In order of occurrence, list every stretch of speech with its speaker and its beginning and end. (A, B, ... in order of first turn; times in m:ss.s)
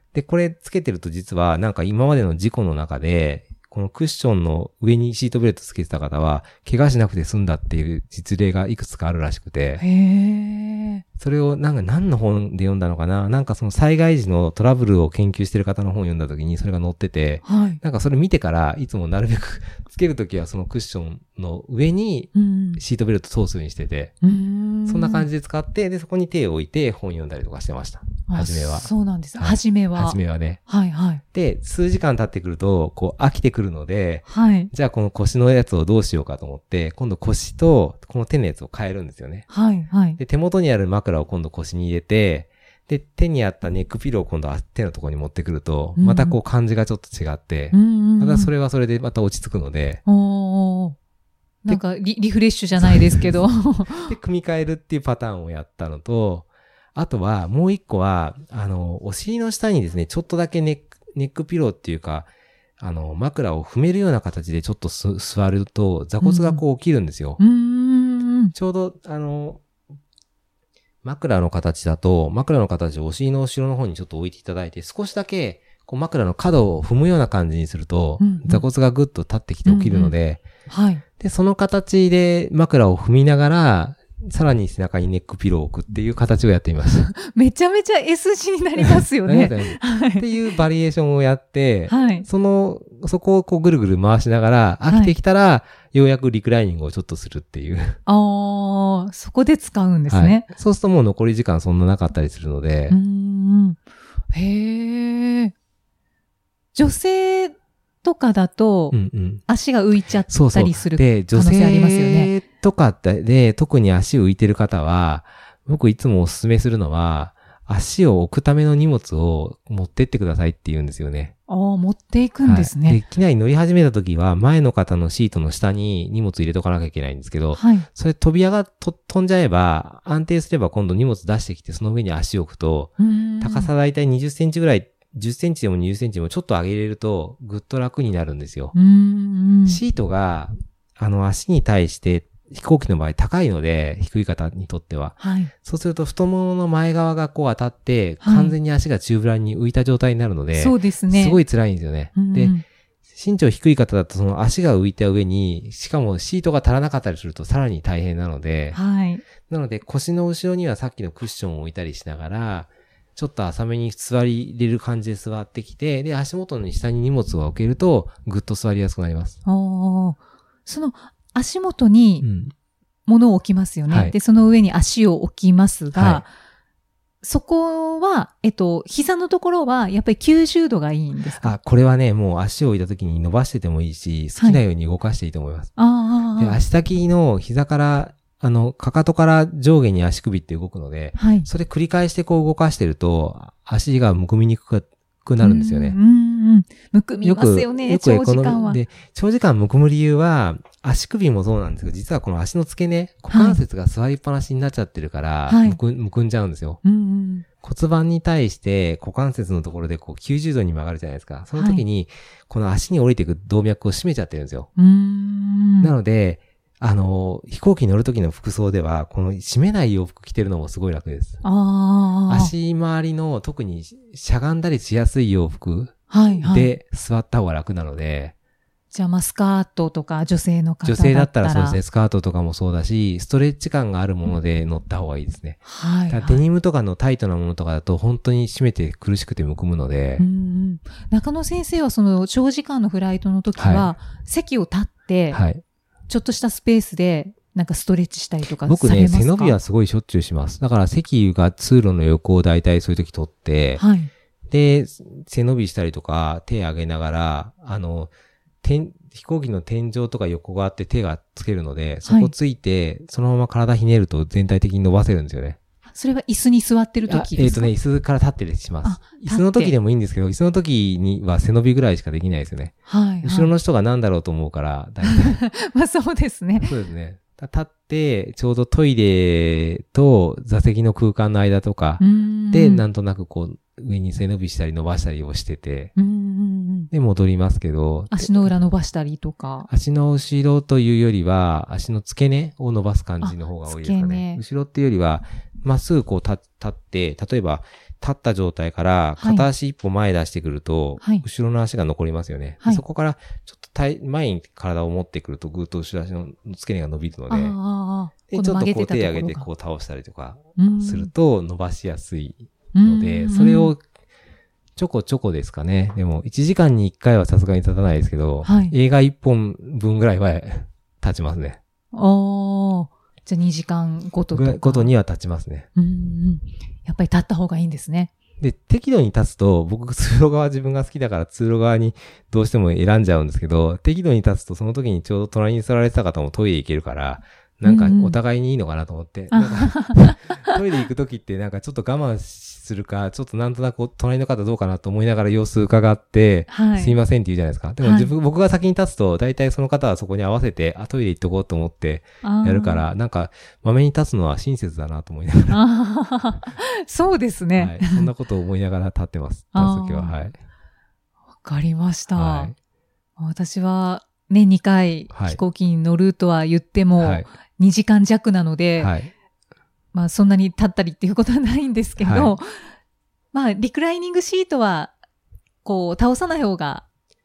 0:00.1-0:09.8 A
0:09.8-0:11.0 B
0:11.2-0:24.1 A
0:17.4-0:17.8 B
0:22.3-0:22.8 B
0:24.2-0:25.3 B
0:24.9-0:30.6 A
0:28.3-0:31.2 B
0:31.3-0:39.5 A
0:34.3-0:34.7 B
0:39.5-0:40.2 B
0:40.2-0:50.0 A
0:46.0-0:46.4 B
0:47.7-0:48.5 B
0:50.0-0:51.0 B
0:51.6-0:54.1 B
0:52.8-0:53.2 A
0:53.9-1:07.4 A
1:06.2-1:06.6 B
1:07.4-1:08.5 B
1:08.5-1:09.6 A
1:11.0-1:20.4 A
1:18.2-1:18.6 B
1:19.6-1:20.1 B
1:20.6-1:21.0 B
1:21.2-1:27.1 A
1:27.2-1:30.3 B
1:28.8-1:38.0 A
1:31.9-1:32.2 B
1:34.9-1:35.1 B
1:38.0-1:40.4 B
1:40.1-1:43.0 A
1:42.9-1:43.8 B
1:44.3-1:45.5 B
1:46.7-1:52.3 B
1:48.9-1:49.4 A
1:50.3-2:01.3 A
2:01.5-2:03.0 B
2:02.4-2:18.7 A
2:07.5-2:07.8 B
2:13.0-2:13.7 B
2:18.7-2:19.8 B
2:19.6-2:32.5 A
2:25.2-2:25.5 B
2:28.2-2:28.6 B
2:30.5-2:31.4 B
2:32.1-2:32.6 B
2:33.1-2:38.8 A
2:38.7-2:39.2 B
2:39.4-2:49.4 A
2:49.4-2:52.2 B
2:52.2-2:52.5 A
2:53.1-2:56.3 B
2:53.9-2:54.2 A
2:55.9-2:56.2 A
2:57.2-3:01.6 B
3:01.4-3:05.7 A
3:05.8-3:06.6 B
3:06.4-3:16.0 A
3:11.2-3:11.5 B
3:15.4-3:18.8 B
3:17.2-3:26.8 A
3:23.3-3:23.6 B
3:25.5-3:25.8 B
3:26.8-3:27.4 B
3:27.6-3:34.7 A
3:31.5-3:31.8 B
3:34.8-3:35.9 B
3:35.8-3:41.4 A
3:41.4-3:42.5 B
3:42.3-3:48.3 A
3:46.1-3:46.7 B
3:48.9-3:51.8 B
3:50.8-4:00.2 A
3:55.6-3:56.4 B
4:00.2-4:05.4 B
4:03.6-4:03.9 A
4:05.3-4:05.6 A
4:06.1-4:09.6 B
4:08.6-4:13.8 A
4:13.8-4:14.1 B
4:14.5-4:18.1 A
4:18.6-4:25.6 A
4:22.0-4:22.3 B
4:25.9-4:27.7 B
4:27.1-4:35.4 A
4:28.8-4:29.8 B
4:32.9-4:33.5 B
4:35.0-4:36.7 B
4:36.5-4:45.9 A
4:42.0-4:42.8 B
4:46.0-4:46.9 B
4:46.9-4:48.5 A
4:48.1-4:49.7 B
4:49.7-5:07.6 A
4:53.2-4:54.4 B
4:59.2-4:59.5 B
5:07.3-5:09.5 B
5:08.3-5:13.8 A
5:10.6-5:11.1 B
5:12.7-5:13.7 B
5:14.8-5:21.6 A
5:18.4-5:18.7 B
5:21.9-5:25.0 B
5:24.3-5:25.7 A
5:25.8-5:28.1 B
5:28.4-5:55.6 A
5:37.6-5:38.2 B
5:39.3-5:40.6 B
5:46.5-5:47.0 B
5:47.8-5:48.1 B
5:52.2-5:52.8 B
5:55.5-5:58.1 B
5:57.6-6:00.4 A
5:59.5-6:00.2 B
6:01.4-6:02.5 B
6:02.1-6:02.5 A
6:03.2-6:08.9 B
6:05.1-6:05.4 A
6:07.0-6:07.3 A
6:08.8-6:09.1 A
6:09.9-6:12.7 B
6:12.0-6:12.4 A
6:13.3-6:14.9 B
6:15.6-6:16.8 B